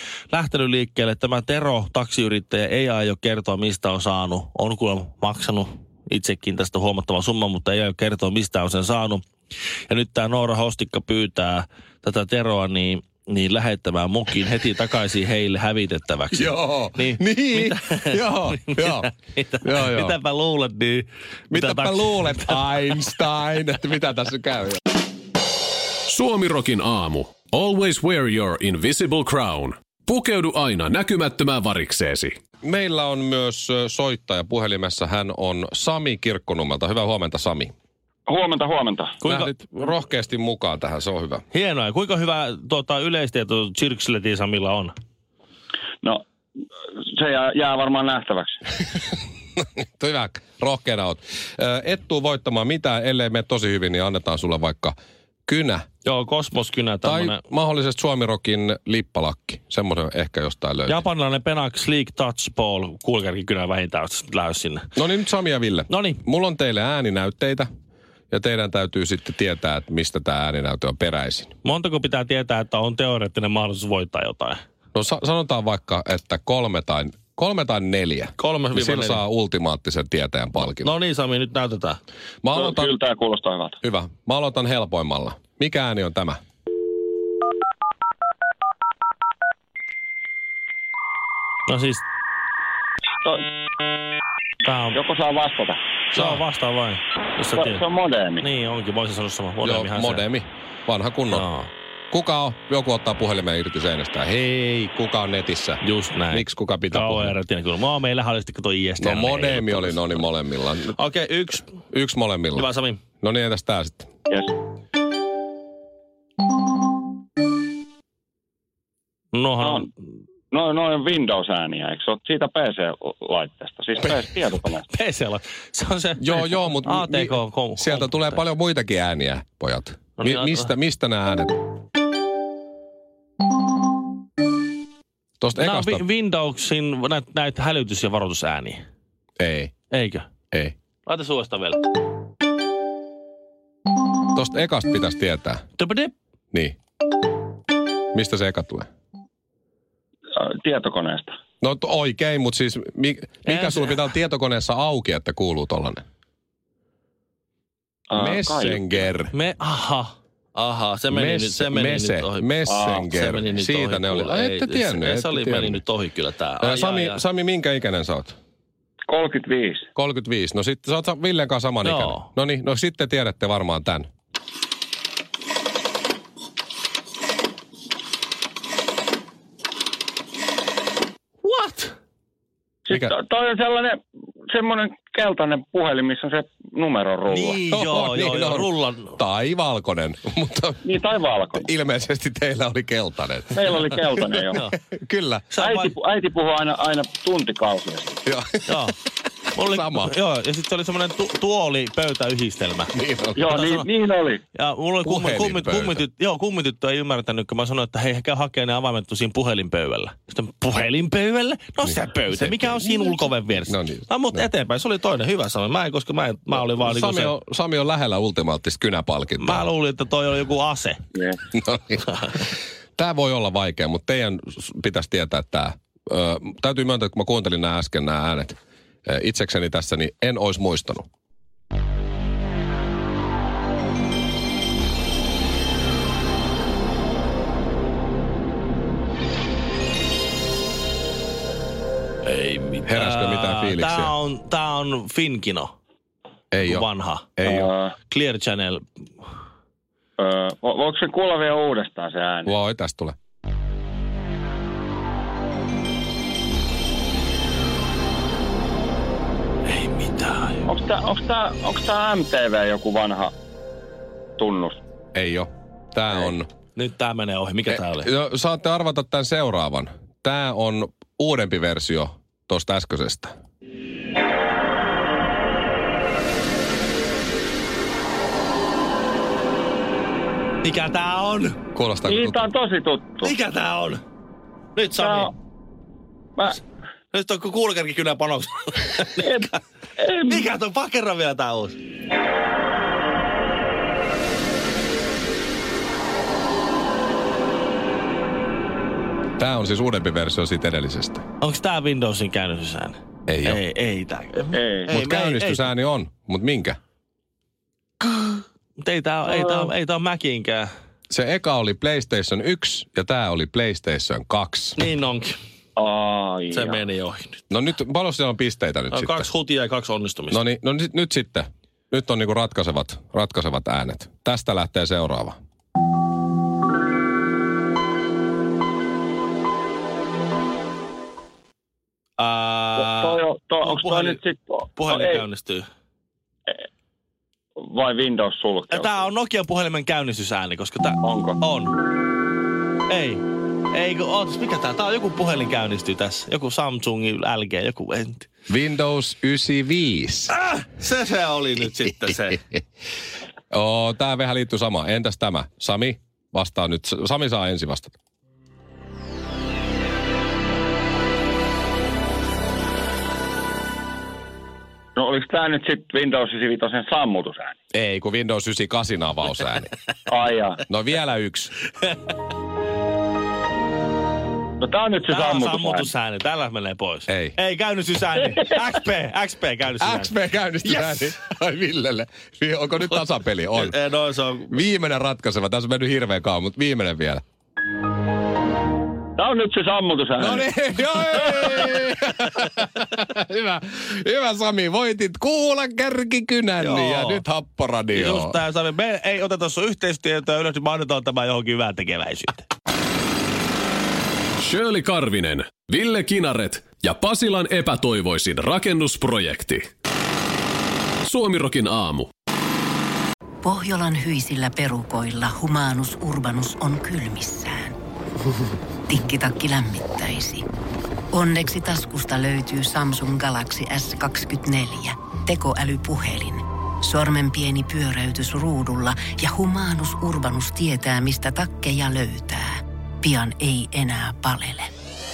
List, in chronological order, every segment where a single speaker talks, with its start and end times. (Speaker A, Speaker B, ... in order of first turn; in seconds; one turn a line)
Speaker A: 0.3-9.2
Speaker A: 9.9-23.3
Speaker B: 16.3-20.2
Speaker B: 21.5-24.8
Speaker C: 26.1-32.4
Speaker B: 32.6-37.7
Speaker D: 38.3-39.2
Speaker A: 39.2-39.9
Speaker B: 39.2-41.4
Speaker A: 41.5-44.9
Speaker D: 47.0-48.6
Speaker B: 49.6-55.0
Speaker B: 55.5-55.9
Speaker A: 56.0-57.4
Speaker B: 57.0-61.0
Speaker A: 60.9-64.9
Speaker B: 65.0-67.7
Speaker A: 65.9-66.2
Speaker B: 68.3-71.5
Speaker A: 71.6-74.6
Speaker B: 74.9-80.9
Speaker A: 78.4-79.2
Speaker A: 80.6-82.0
Speaker B: 82.4-83.0
Speaker D: 82.5-83.8
Speaker B: 83.8-86.4
Speaker A: 91.7-92.0
Speaker A: 94.6-95.0
Speaker D: 94.9-95.8
Speaker A: 96.1-97.8
Speaker B: 96.1-96.4
Speaker D: 97.5-98.5
Speaker A: 98.4-100.3
Speaker B: 99.6-101.5
Speaker A: 101.3-101.7
Speaker B: 102.1-107.4
Speaker A: 105.8-110.3
Speaker B: 109.0-111.0
Speaker A: 110.9-111.7
Speaker B: 111.9-112.7
Speaker A: 112.5-113.0
Speaker B: 113.2-114.1
Speaker A: 119.3-119.9
Speaker D: 119.6-119.9
Speaker D: 120.5-124.9
Speaker A: 124.9-128.4
Speaker B: 126.2-131.6
Speaker A: 130.2-130.7
Speaker B: 135.4-136.0
Speaker A: 135.6-138.8
Speaker B: 139.4-139.7
Speaker A: 139.9-140.3
Speaker A: 141.1-141.9
Speaker B: 144.3-145.6
Speaker A: 145.8-146.1
Speaker B: 148.1-148.9
Speaker D: 150.4-151.3
Speaker B: 151.6-156.0
Speaker A: 153.5-154.1
Speaker D: 158.1-159.0
Speaker B: 158.2-159.3
Speaker A: 159.3-167.2
Speaker B: 161.1-165.8
Speaker D: 162.7-163.2
Speaker B: 166.6-168.4
Speaker D: 169.1-169.8
Speaker B: 170.0-174.1
Speaker A: 171.8-172.3
Speaker A: 181.4-181.9
Speaker D: 182.9-184.0
Speaker D: 184.5-187.6
Speaker A: 187.3-189.2
Speaker B: 187.7-190.9
Speaker D: 190.8-191.7
Speaker B: 191.6-195.5
Speaker D: 193.5-194.6
Speaker A: 195.5-195.9
Speaker D: 195.6-198.2
Speaker B: 198.3-198.9
Speaker A: 198.7-199.0
Speaker A: 199.6-202.9
Speaker B: 199.6-200.1
Speaker B: 202.9-203.6
Speaker D: 203.3-204.4
Speaker A: 203.5-203.9
Speaker A: 204.6-217.3
Speaker B: 205.0-206.0
Speaker B: 211.8-214.5
Speaker B: 216.5-219.7
Speaker A: 219.4-221.0
Speaker B: 221.5-222.4
Speaker B: 223.0-231.1
Speaker A: 242.2-245.7
Speaker B: 242.9-244.1
Speaker B: 246.5-247.7
Speaker A: 246.6-247.4
Speaker D: 247.5-247.9
Speaker A: 248.1-248.9
Speaker D: 250.2-252.5
Speaker B: 252.4-253.2
Speaker A: 259.7-260.7
Speaker D: 260.7-263.3
Speaker D: 264.4-264.8
Speaker B: 265.1-266.5
Speaker A: 266.8-268.1
Speaker B: 267.7-273.3
Speaker A: 280.6-281.6
Speaker B: 281.7-282.5
Speaker D: 282.1-283.4
Speaker A: 283.2-284.0
Speaker A: 284.8-285.3
Speaker D: 284.9-285.3
Speaker A: 287.1-289.6
Speaker D: 289.2-290.5
Speaker A: 290.3-291.8
Speaker B: 299.4-301.2
Speaker A: 301.4-305.7
Speaker B: 303.3-303.6
Speaker D: 304.5-304.9
Speaker B: 304.9-306.8
Speaker A: 308.0-310.7
Speaker B: 311.1-314.8
Speaker A: 314.8-315.4
Speaker D: 315.8-316.8
Speaker A: 316.5-317.4
Speaker B: 317.5-319.3
Speaker A: 318.9-320.4
Speaker B: 320.3-325.4
Speaker A: 332.2-334.2
Speaker D: 332.8-335.2
Speaker A: 334.8-335.7
Speaker D: 337.6-339.1
Speaker A: 338.7-341.8
Speaker D: 341.0-341.4
Speaker A: 342.9-348.3
Speaker B: 348.5-350.3
Speaker A: 350.3-352.4
Speaker B: 353.5-357.9
Speaker D: 365.0-367.5
Speaker B: 367.7-369.7
Speaker D: 370.1-370.6
Speaker B: 370.7-371.5
Speaker D: 374.6-375.9
Speaker A: 375.1-381.1
Speaker B: 377.1-377.4
Speaker B: 379.8-383.8
Speaker A: 383.6-384.6
Speaker B: 384.5-387.2
Speaker D: 389.2-390.4
Speaker B: 390.2-398.4
Speaker D: 391.0-391.4
Speaker A: 396.6-397.2
Speaker A: 397.9-402.5
Speaker C: 404.4-409.7
Speaker C: 411.1-412.1
Speaker E: 413.4-417.8
Speaker E: 418.9-420.4
Speaker E: 421.1-434.7